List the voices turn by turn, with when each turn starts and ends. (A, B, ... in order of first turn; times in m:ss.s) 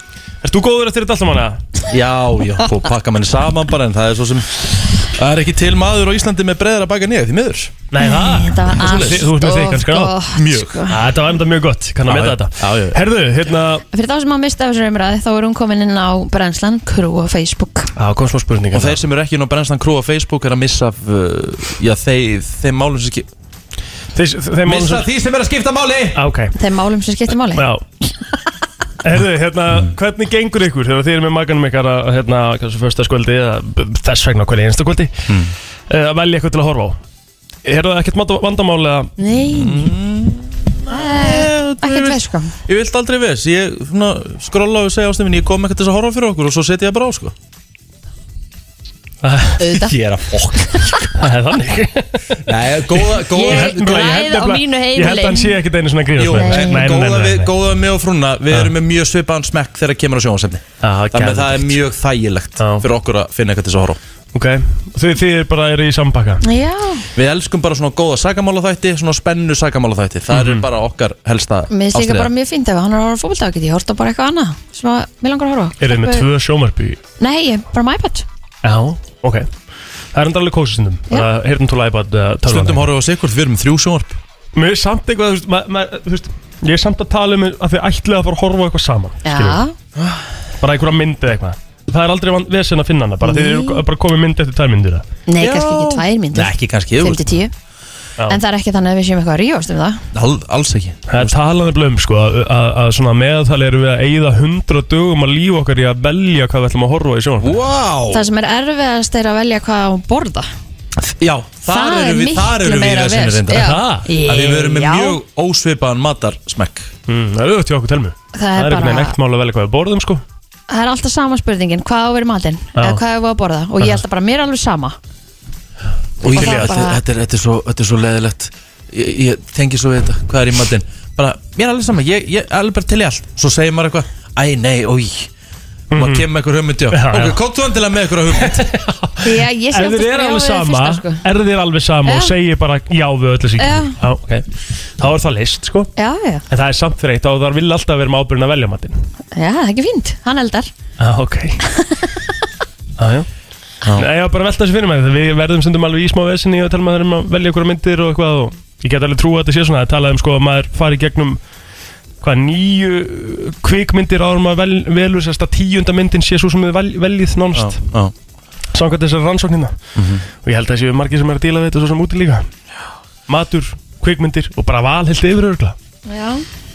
0:00.4-0:01.6 A
0:01.9-0:07.8 B
0:07.9-0:10.1 A
0:08.0-0:11.0 C
0:08.7-0:09.2 B
0:10.3-0:10.8 B
0:10.9-0:13.8 A
0:12.0-0:13.0 B
0:13.9-0:17.9 C
0:18.0-0:19.0 A
0:18.7-0:23.3 B
0:24.1-0:25.1 A
0:24.6-0:26.2 B
0:26.2-0:26.5 A
0:26.6-0:27.6 C
0:27.5-0:27.8 A
0:29.0-0:35.2 A
0:35.3-0:35.5 B
0:35.9-0:37.0 A
0:37.6-0:39.1 A
0:39.2-0:39.9 C
0:39.5-0:47.3 B
0:40.9-0:42.5 C
0:49.2-0:49.6 A
0:49.6-0:49.9 C
0:49.7-0:51.2 B
0:50.7-0:51.0 C
0:51.2-0:52.4 A
0:52.4-0:54.0 B
0:53.3-0:57.5 A
0:53.3-0:55.6 C
0:56.2-1:04.0 B
0:56.3-0:56.8 C
1:00.8-1:01.8 A
1:02.6-1:02.9 A
1:04.3-1:06.4 A
1:06.4-1:07.0 C
1:07.1-1:12.3 B
1:10.3-1:10.6 A
1:11.7-1:16.3 C
1:15.8-1:17.0 A
1:17.2-1:18.2 C
1:18.6-1:19.5 A
1:20.1-1:22.9 A
1:22.4-1:24.2 B
1:24.5-1:29.6 A
1:29.2-1:29.7 C
1:30.6-1:35.0 A
1:33.2-1:33.8 C
1:35.3-1:37.5 C
1:35.4-1:37.4 B
1:38.3-1:40.0 C
1:40.1-1:41.3 B
1:41.1-1:47.6 A
1:47.4-1:48.3 B
1:48.1-1:50.5 C
1:51.0-1:56.9 B
1:51.6-1:55.2 C
1:53.5-1:54.1 A
1:57.1-2:00.2 A
1:58.3-1:59.1 C
2:00.7-2:05.0 C
2:02.8-2:03.0 A
2:06.2-2:15.3 B
2:06.2-2:07.0 C
2:06.3-2:06.7 A
2:15.9-2:16.3 A
2:15.9-2:18.7 B
2:16.9-2:17.4 A
2:18.4-2:24.5 A
2:19.2-2:21.2 C
2:22.0-2:22.3 C
2:23.6-2:24.0 C
2:25.0-2:25.9 A
2:26.0-2:26.4 C
2:26.5-2:29.0 A
2:29.3-2:30.7 C
2:31.0-2:31.6 A
2:31.7-2:32.1 C
2:33.0-2:33.3 A
2:33.8-2:34.1 B
2:33.9-2:41.4 A
2:42.2-2:47.8 A
2:47.5-2:48.1 B
2:48.7-2:49.8 A
2:50.0-2:50.2 B
2:50.4-2:52.5 A
2:53.3-2:55.8 A
2:56.1-2:56.4 C